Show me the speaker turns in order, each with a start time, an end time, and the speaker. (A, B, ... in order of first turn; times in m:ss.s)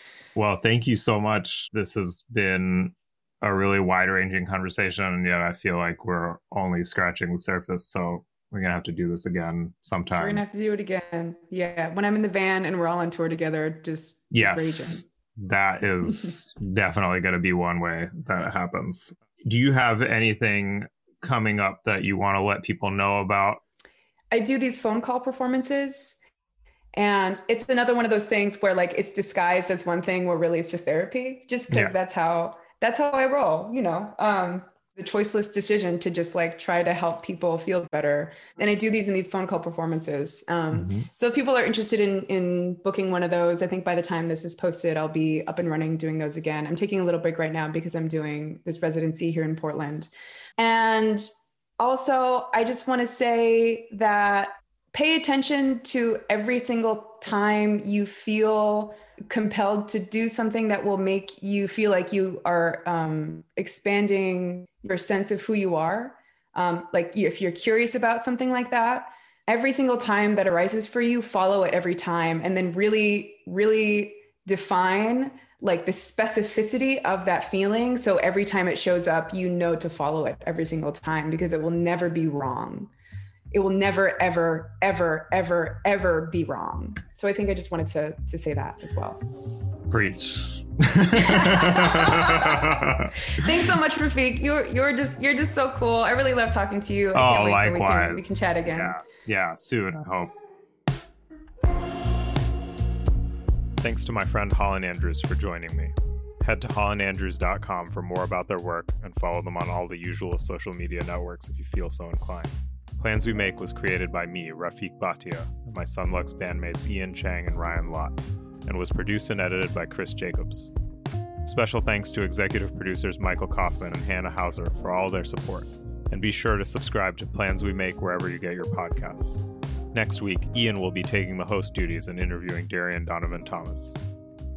0:00.3-0:10.4 A
0:10.2-0:15.0 B
0:14.3-0:23.6 A
0:24.3-0:26.2 B
0:26.9-0:51.3 B
0:40.7-0:41.1 A
0:51.8-1:22.9 B
1:23.5-1:29.2 B
1:29.9-1:33.2 A
1:31.2-1:32.6 B
1:33.3-1:39.0 B
1:37.1-1:40.3 A
1:43.8-2:00.7 A
2:01.4-2:14.0 A